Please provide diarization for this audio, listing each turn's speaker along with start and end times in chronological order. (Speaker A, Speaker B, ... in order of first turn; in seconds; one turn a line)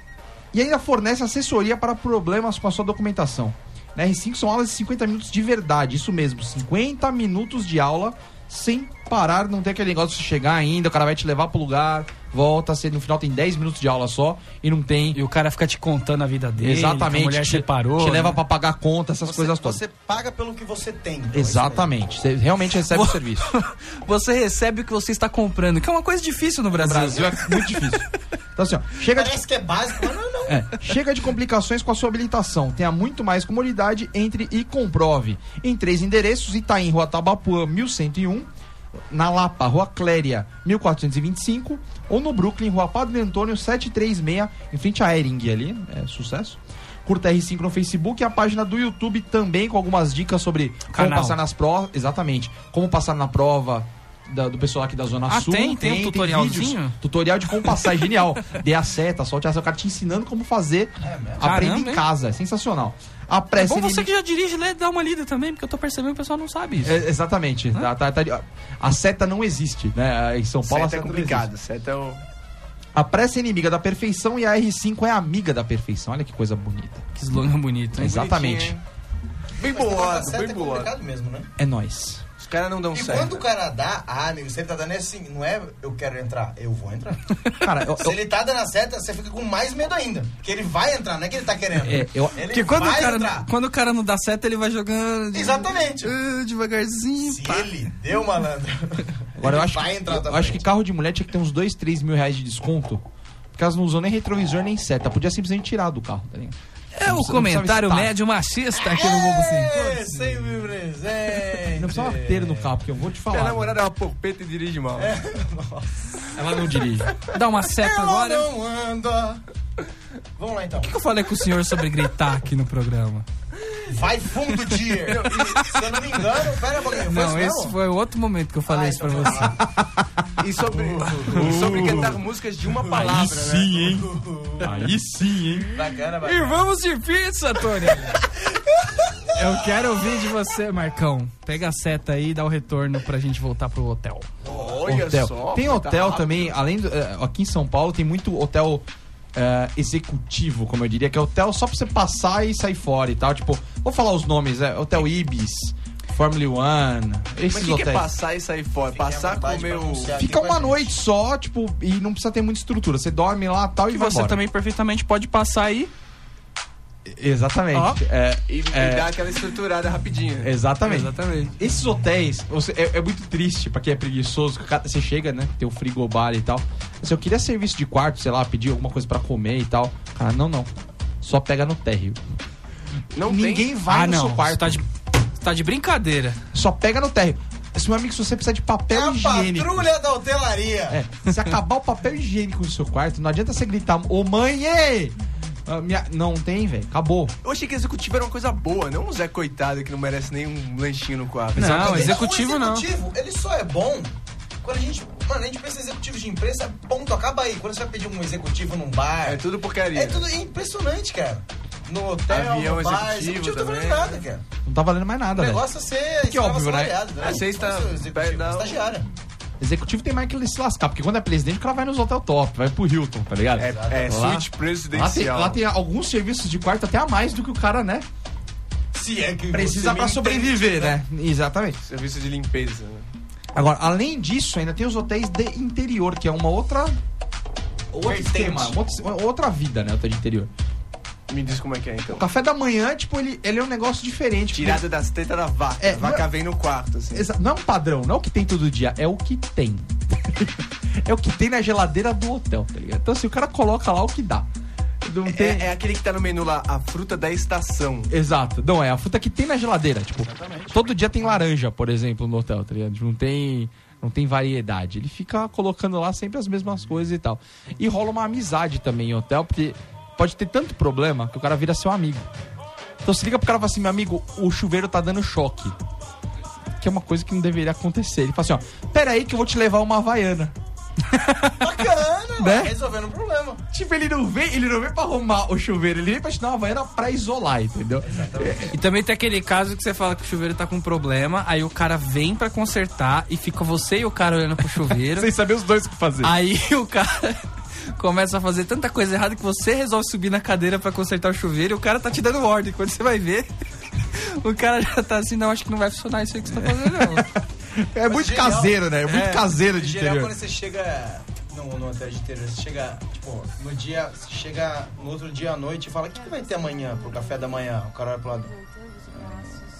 Speaker A: 0.5-15.2
Speaker B: 15.1-18.4
Speaker A: 16.6-19.8
Speaker C: 19.2-21.9
Speaker A: 21.3-23.5
Speaker B: 22.9-28.0
Speaker A: 26.7-28.0
Speaker A: 28.6-29.4
Speaker C: 29.1-30.7
Speaker A: 30.5-38.5
Speaker A: 39.1-64.1
Speaker B: 50.9-51.4
Speaker B: 55.3-57.0
Speaker C: 61.0-61.7
Speaker B: 61.4-62.0
Speaker B: 63.6-67.0
Speaker A: 66.8-71.5
Speaker D: 70.6-72.2
Speaker A: 72.9-77.0
Speaker B: 77.2-78.2
Speaker A: 78.0-78.8
Speaker D: 78.0-78.8
Speaker D: 79.6-80.9
Speaker C: 79.6-81.5
Speaker A: 81.6-82.2
Speaker D: 82.4-83.4
Speaker C: 82.9-87.2
Speaker A: 87.6-88.2
Speaker C: 88.0-93.5
Speaker A: 91.8-92.4
Speaker B: 92.5-97.7
Speaker C: 95.3-96.1
Speaker C: 97.2-100.6
Speaker A: 99.4-103.0
Speaker A: 103.5-108.1
Speaker B: 106.9-110.5
Speaker C: 108.8-112.7
Speaker A: 111.8-113.8
Speaker D: 113.3-115.2
Speaker C: 115.0-116.4
Speaker A: 116.3-117.1
Speaker B: 117.3-118.5
Speaker C: 117.7-119.4
Speaker C: 120.4-121.0
Speaker B: 120.8-123.3
Speaker C: 123.9-127.8
Speaker D: 125.1-125.8
Speaker B: 125.3-125.7
Speaker B: 127.0-129.6
Speaker C: 128.7-129.6
Speaker A: 129.6-130.2
Speaker D: 130.4-134.0
Speaker C: 130.6-132.1
Speaker A: 131.3-132.2
Speaker C: 132.7-134.9
Speaker A: 132.9-135.8
Speaker C: 135.7-136.7
Speaker B: 136.2-138.2
Speaker C: 138.8-139.3
Speaker B: 139.3-144.3
Speaker D: 144.4-146.5
Speaker A: 144.8-158.1
Speaker D: 157.5-160.2
Speaker C: 158.9-160.9
Speaker A: 160.2-164.4
Speaker B: 163.9-165.9
Speaker A: 167.1-169.1
Speaker B: 167.7-168.0
Speaker D: 168.5-170.5
Speaker A: 170.4-180.7
Speaker B: 170.8-171.5
Speaker A: 181.2-182.2
Speaker D: 183.1-183.7
Speaker A: 183.2-184.8
Speaker B: 183.9-184.9
Speaker B: 185.4-186.4
Speaker A: 186.5-189.9
Speaker C: 188.9-191.0
Speaker A: 190.9-197.3
Speaker D: 197.4-202.2
Speaker B: 201.6-202.9
Speaker A: 201.6-202.0
Speaker C: 201.7-209.4
Speaker D: 209.2-210.3
Speaker C: 209.9-214.4
Speaker D: 212.3-214.2
Speaker A: 214.7-215.7
Speaker C: 215.3-219.1
Speaker A: 216.2-217.0
Speaker D: 217.2-218.9
Speaker A: 219.6-228.1
Speaker D: 223.6-225.6
Speaker C: 223.6-224.2
Speaker C: 228.9-231.0
Speaker A: 229.5-231.8
Speaker D: 231.9-233.1
Speaker A: 233.6-237.0
Speaker A: 237.9-240.5
Speaker C: 238.0-238.8
Speaker D: 241.3-242.3
Speaker A: 242.1-244.8
Speaker D: 244.5-247.3
Speaker A: 245.8-246.3
Speaker A: 247.1-254.5
Speaker A: 255.0-255.7
Speaker D: 255.3-258.1
Speaker A: 258.1-272.3
Speaker C: 260.2-260.8
Speaker A: 273.0-275.8
Speaker A: 276.8-280.5
Speaker B: 281.1-281.6
Speaker C: 281.6-283.6
Speaker A: 282.4-282.8
Speaker A: 283.7-288.7
Speaker C: 288.0-288.7
Speaker B: 288.7-295.3
Speaker A: 294.9-296.3
Speaker B: 296.2-297.4
Speaker B: 297.9-303.5
Speaker B: 304.1-307.3
Speaker A: 306.5-310.4
Speaker C: 308.1-318.5
Speaker B: 309.1-309.4
Speaker C: 319.1-319.5